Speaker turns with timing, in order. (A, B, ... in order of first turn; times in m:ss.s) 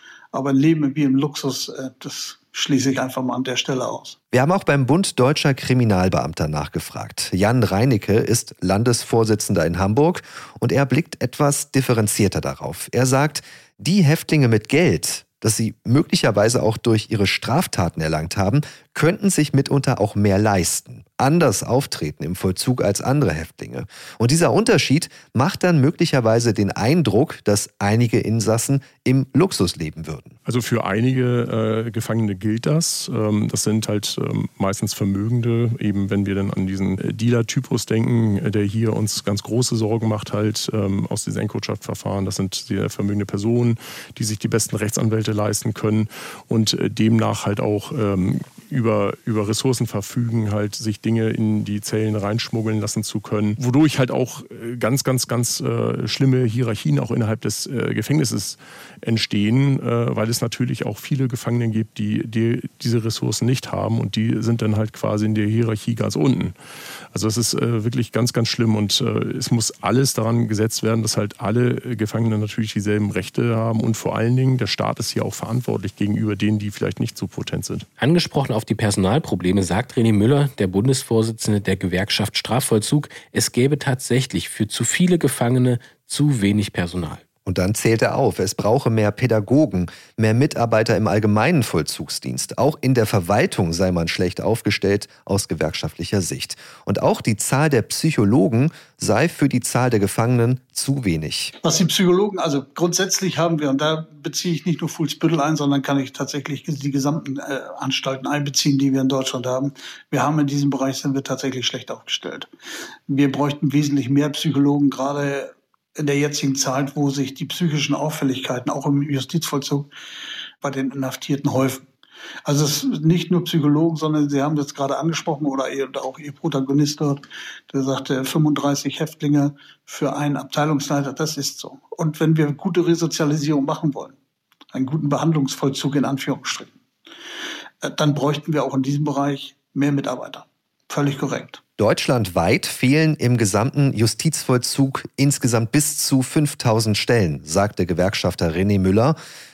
0:00.3-0:04.2 A
0:04.3-0:30.3 B
0:30.4-1:06.6 C
1:07.1-1:17.9 C
1:18.0-1:27.2 D
1:27.4-1:41.5 B
1:41.6-1:52.5 A
1:53.1-1:59.9 A
2:00.6-2:01.9 A
2:02.4-2:14.2 A
2:14.7-2:16.7 A
2:17.8-2:21.6 A
2:21.8-2:29.2 B